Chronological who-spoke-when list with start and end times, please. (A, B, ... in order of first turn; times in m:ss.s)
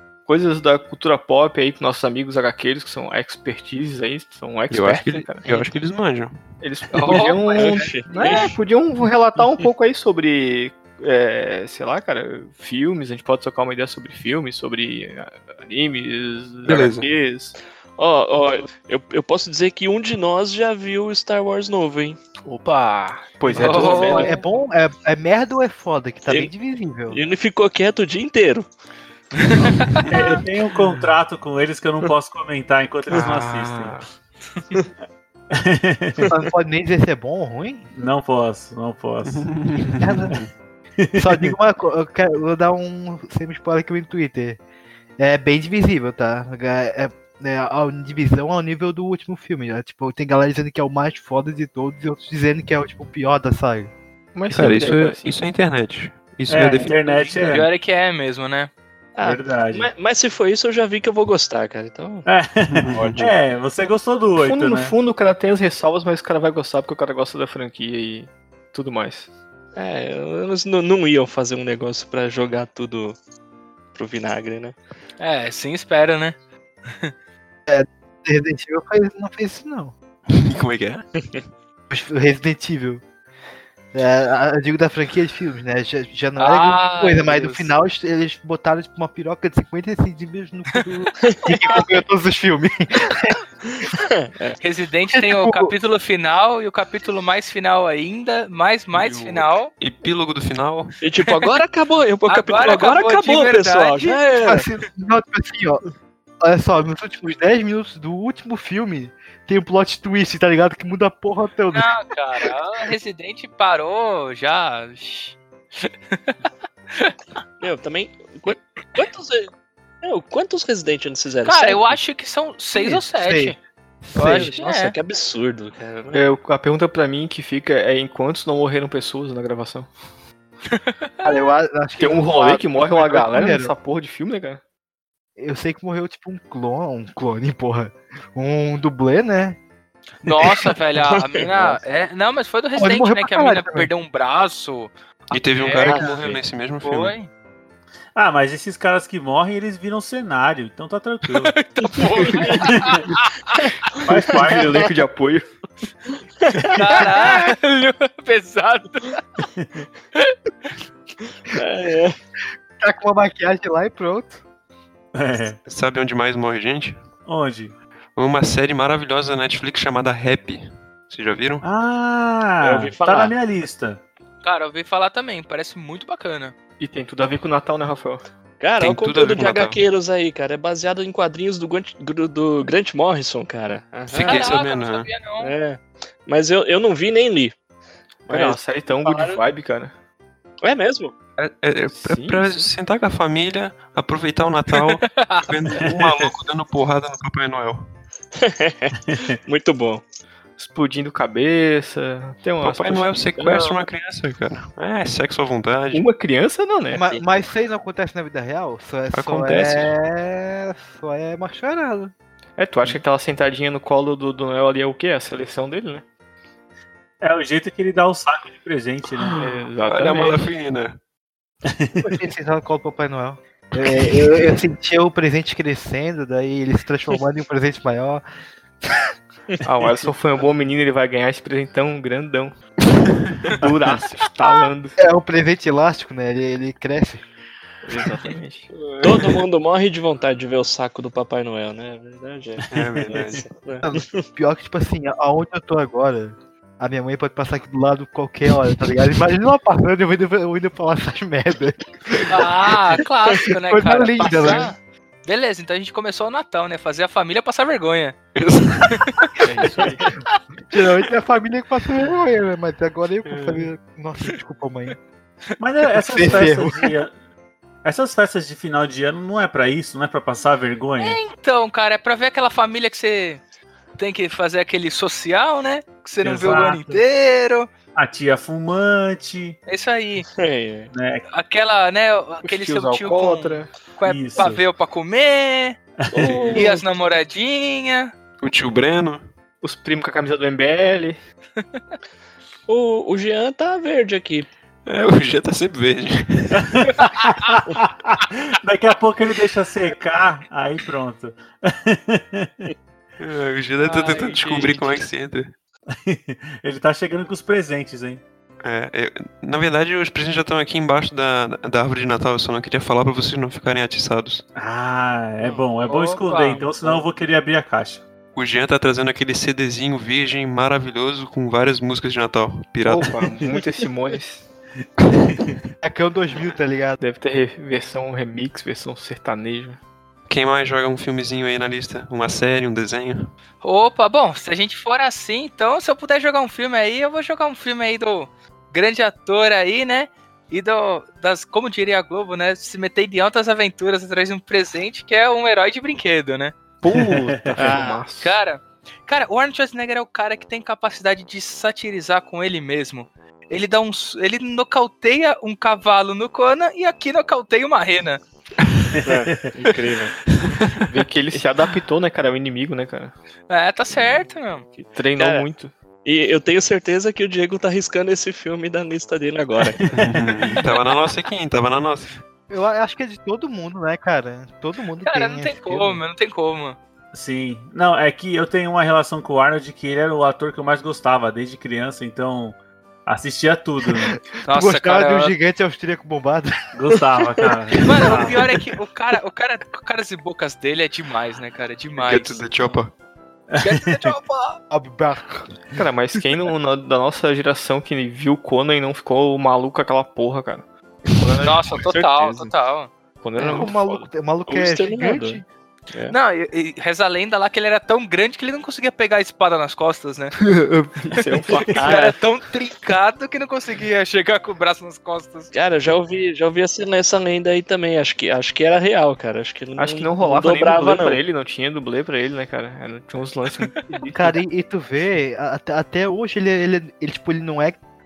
0:00.3-0:05.7 A
0:04.7-0:06.4 B
0:06.6-0:17.6 A
0:06.9-0:08.5 C
0:07.5-0:08.6 D
0:16.6-0:17.1 B
0:18.0-0:22.2 D
0:22.4-0:24.4 A
0:23.5-0:24.4 C
0:23.5-0:27.2 E
0:27.1-0:28.7 D
0:29.4-0:30.1 C
0:30.1-0:34.0 F
0:33.1-0:34.1 A
0:35.5-0:36.3 F
0:36.3-0:37.9 E
0:38.0-0:39.5 F
0:39.3-0:40.4 B
0:40.0-0:40.4 E
0:41.0-0:41.5 F
0:41.2-0:44.6 E
0:45.2-0:53.9 E
0:54.4-0:55.4 A
0:54.5-0:57.6 B
0:56.5-0:57.7 F
0:57.4-0:58.7 C
0:59.2-1:02.3 D
0:59.2-0:59.9 F
1:02.3-1:05.0 F
1:02.7-1:03.3 B
1:04.4-1:09.3 A
1:09.8-1:13.2 D
1:13.9-1:14.8 D
1:15.2-1:16.4 C
1:17.7-1:19.9 E
1:20.3-1:21.0 B
1:21.9-1:23.0 E
1:23.9-1:33.4 E
1:26.4-1:27.7 C
1:34.1-1:34.6 D
1:34.6-1:39.7 C
1:35.1-1:35.7 E
1:38.9-1:41.0 B
1:41.0-1:44.7 D
1:42.3-1:44.2 C
1:44.4-1:45.8 E
1:46.4-1:52.0 E
1:51.7-1:56.4 C
1:57.6-1:59.5 D
2:00.0-2:02.0 D
2:01.4-2:03.6 C
2:02.8-2:04.6 E
2:04.1-2:06.2 D
2:04.2-2:05.0 C
2:06.1-2:09.9 A
2:10.7-2:11.3 C
2:11.2-2:13.7 E
2:12.0-2:14.6 A
2:15.4-2:19.6 E
2:20.2-2:27.3 C
2:22.8-2:23.9 E
2:25.3-2:27.2 B
2:28.2-2:31.5 F
2:31.3-2:33.6 C
2:32.6-2:33.1 F
2:34.0-2:35.0 F
2:34.4-2:35.5 A
2:36.8-2:39.2 C
2:37.0-2:37.5 A
2:39.6-2:39.8 F
2:41.5-2:42.2 D
2:42.8-2:44.4 E
2:45.1-2:45.6 F
2:45.7-2:47.0 B
2:47.2-2:47.7 F
2:48.2-2:51.6 B
2:51.6-2:54.0 F
2:52.6-2:53.3 D
2:54.4-2:56.5 C
2:56.8-2:58.2 A
2:58.6-3:04.5 D
2:58.8-2:59.8 B
3:04.1-3:05.1 B
3:04.3-3:05.5 C
3:05.4-3:07.6 D
3:08.3-3:09.4 D
3:08.3-3:09.9 A
3:10.6-3:11.2 D
3:11.4-3:17.9 B
3:11.9-3:12.7 A
3:14.8-3:15.5 C
3:15.8-3:16.2 F
3:18.4-3:20.0 D
3:20.6-3:23.8 A
3:22.6-3:26.1 B
3:25.9-3:27.1 A
3:26.9-3:32.1 E
3:29.1-3:29.9 B
3:32.6-3:36.0 A
3:37.2-3:39.4 F
3:39.4-3:40.4 A
3:39.8-3:41.0 B
3:41.7-3:42.2 F
3:42.0-3:48.2 E
3:49.6-3:52.5 A
3:53.6-3:55.0 A
3:55.0-3:57.2 E
3:57.8-3:59.3 A
3:59.0-4:04.2 D
4:02.6-4:03.4 F
4:02.7-4:03.5 B
4:03.8-4:12.5 E
4:12.3-4:18.2 C
4:13.5-4:14.7 E
4:18.4-4:19.2 B
4:19.0-4:19.4 C
4:19.4-4:20.1 A
4:20.7-4:25.0 E
4:25.6-4:27.1 F
4:26.1-4:26.9 E
4:27.8-4:31.2 F
4:31.0-4:33.4 C
4:34.0-4:37.7 C
4:36.2-4:37.0 F
4:38.0-4:39.6 F
4:39.7-4:40.3 C
4:40.3-4:40.9 D
4:40.9-4:41.3 F
4:41.3-4:45.8 C
4:42.4-4:43.7 A
4:44.0-4:44.6 F
4:46.0-4:46.7 F
4:46.1-4:46.8 D
4:46.5-4:48.1 C
4:48.4-4:49.2 B
4:49.6-4:51.2 A
4:52.7-4:54.5 D
4:54.9-4:56.7 B
4:56.7-5:02.7 F
5:03.2-5:05.5 B
5:04.0-5:05.0 A
5:06.0-5:08.2 F
5:08.6-5:14.4 B
5:14.6-5:18.0 F
5:15.4-5:17.0 C
5:18.4-5:23.3 B
5:22.8-5:24.4 A
5:25.8-5:27.0 E
5:27.0-5:29.8 A
5:30.3-5:33.3 B
5:33.6-5:46.6 C
5:46.8-5:48.4 A
5:46.9-5:47.7 F
5:47.6-5:58.2 C
5:59.0-5:59.4 F
5:59.0-6:00.2 D
6:00.6-6:03.1 A
6:03.5-6:04.7 C
6:04.8-6:05.7 A
6:05.2-6:05.5 D
6:06.0-6:09.9 D
6:09.8-6:10.3 F
6:10.0-6:12.2 B
6:12.5-6:16.0 E
6:15.0-6:16.8 C
6:17.1-6:22.6 F
6:23.1-6:24.1 F
6:24.1-6:26.6 E
6:24.4-6:25.4 C
6:26.7-6:28.4 F
6:27.8-6:32.8 C
6:32.0-6:32.9 B
6:33.6-6:34.1 F
6:33.6-6:34.6 C
6:34.7-6:35.6 E
6:35.8-6:41.9 A
6:41.4-6:42.9 C
6:41.9-6:42.5 D
6:43.2-6:44.1 A
6:43.4-6:43.7 D
6:43.4-6:45.4 E
6:44.5-6:46.2 D
6:46.1-6:50.4 C
6:50.4-6:52.1 A
6:51.2-6:55.5 C
6:55.5-7:01.2 D
6:59.8-7:04.4 A
7:04.0-7:07.8 E